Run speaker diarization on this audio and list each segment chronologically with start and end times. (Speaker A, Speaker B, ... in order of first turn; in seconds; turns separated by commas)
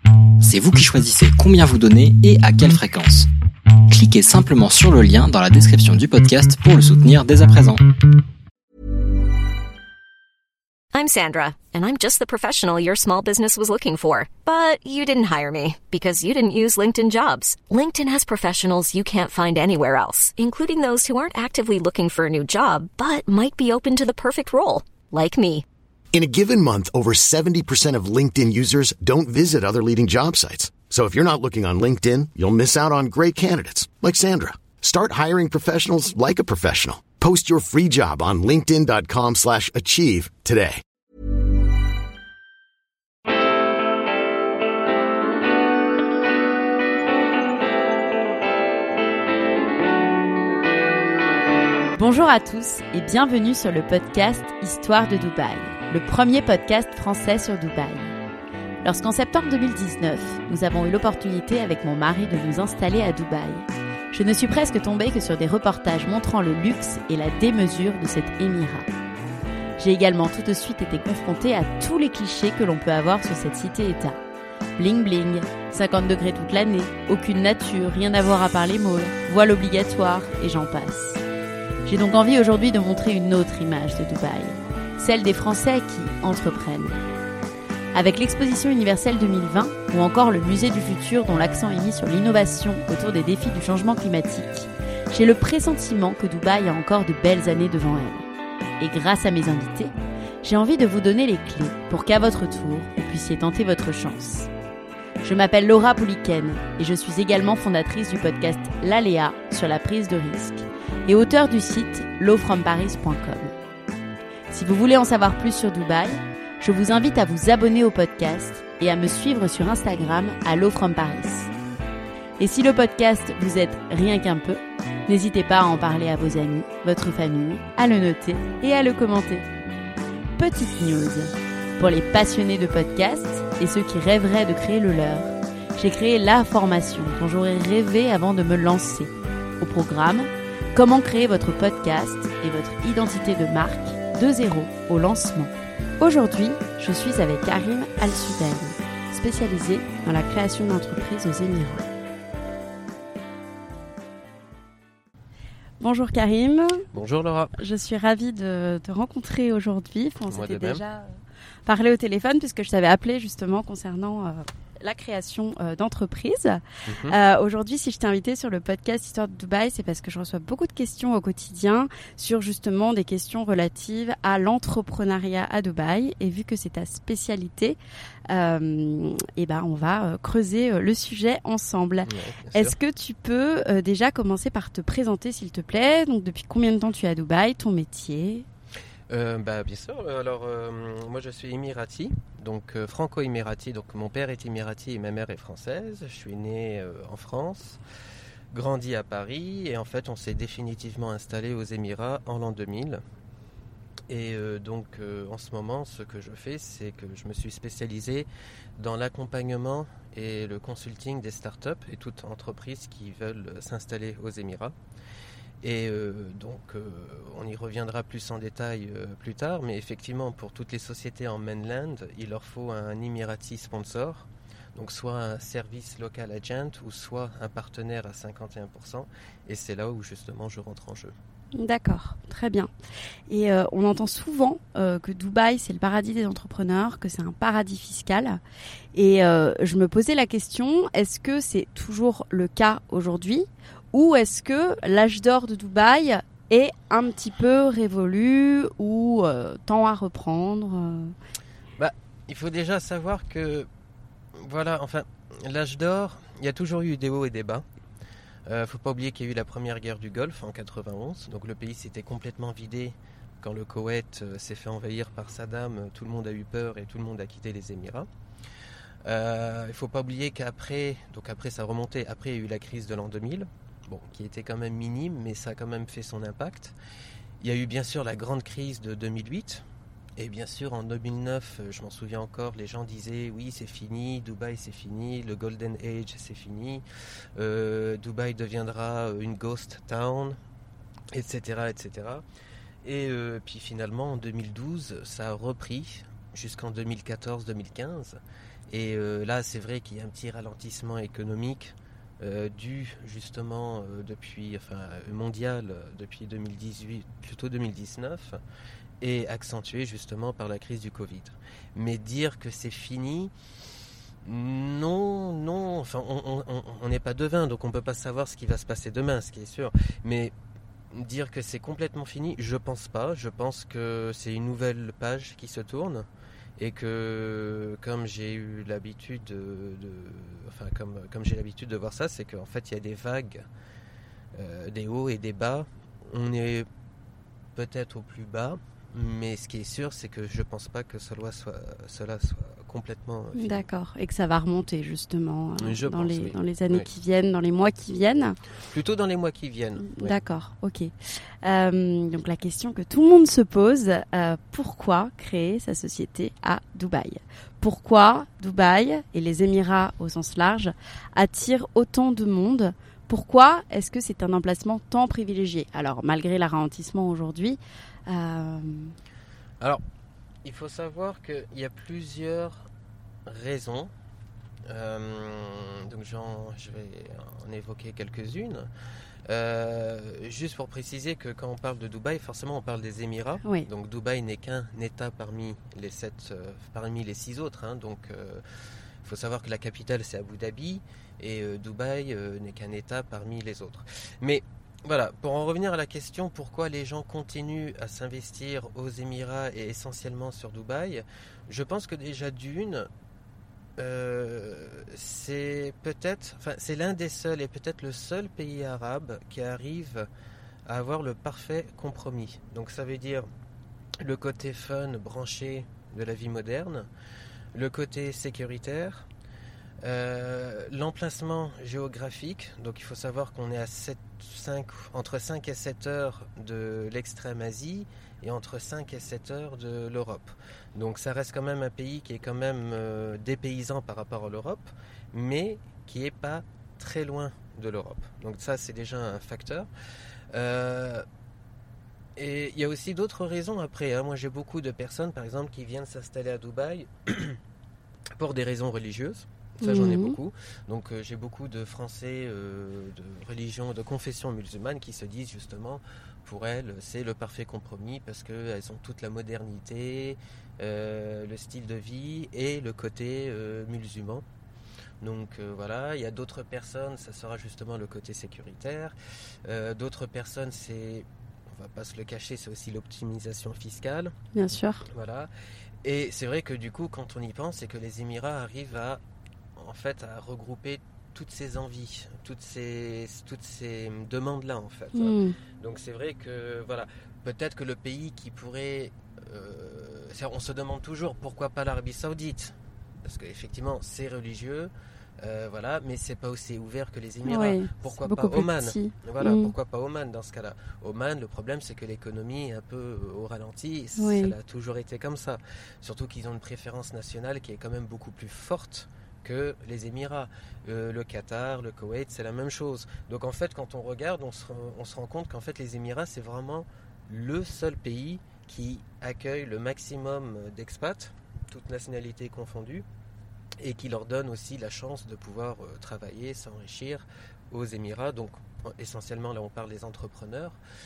Speaker A: 0.4-3.3, Speaker A: 3.9-7.8, Speaker B: 10.9-25.6, Speaker C: 26.1-40.8, Speaker D: 52.0-58.1, Speaker D: 58.8-68.9, Speaker D: 69.8-74.2, Speaker D: 74.8-81.2, Speaker D: 81.8-87.0, Speaker D: 87.9-98.3, Speaker D: 98.8-99.9, Speaker D: 100.4-104.5, Speaker D: 105.2-113.5, Speaker D: 114.5-121.5, Speaker D: 122.4-129.5, Speaker D: 130.4-151.8, Speaker D: 155.8-156.9, Speaker E: 156.9-157.5, Speaker D: 157.6-177.8, Speaker E: 160.3-160.8, Speaker E: 166.9-167.1, Speaker D: 178.3-188.4, Speaker E: 182.1-182.7, Speaker E: 189.1-197.8, Speaker E: 198.5-203.0, Speaker E: 204.1-214.7, Speaker E: 215.6-231.1, Speaker D: 231.6-232.7, Speaker D: 233.3-238.4, Speaker D: 238.9-251.1, Speaker E: 251.8-253.7, Speaker E: 254.3-257.6, Speaker E: 258.5-268.1, Speaker E: 269.0-276.7, Speaker E: 277.4-279.6, Speaker E: 280.2-286.8, Speaker E: 287.4-290.4, Speaker E: 291.1-292.2, Speaker E: 292.8-298.2, Speaker E: 298.7-308.4, Speaker E: 309.0-313.3, Speaker E: 314.2-320.3, Speaker E: 320.9-326.1, Speaker E: 326.6-333.4, Speaker E: 334.3-336.7, Speaker E: 337.6-343.6, Speaker D: 343.4-348.4, Speaker E: 345.6-346.9, Speaker E: 348.7-350.2, Speaker D: 349.9-368.9, Speaker E: 370.4-372.6, Speaker E: 373.2-373.9, Speaker E: 374.7-378.7, Speaker E: 379.3-388.4, Speaker E: 389.0-402.9, Speaker E: 403.8-410.1, Speaker E: 410.6-413.3, Speaker E: 414.0-416.9, Speaker E: 417.5-419.1, Speaker E: 419.8-439.7, Speaker E: 440.3-441.0, Speaker E: 442.1-447.4, Speaker E: 448.2-464.2, Speaker D: 449.6-450.2, Speaker E: 465.0-474.1, Speaker D: 474.3-474.8, Speaker E: 474.9-475.3, Speaker E: 475.8-479.0, Speaker E: 479.6-522.8, Speaker D: 484.9-485.3, Speaker D: 497.2-499.5, Speaker D: 504.0-504.3, Speaker E: 523.6-530.5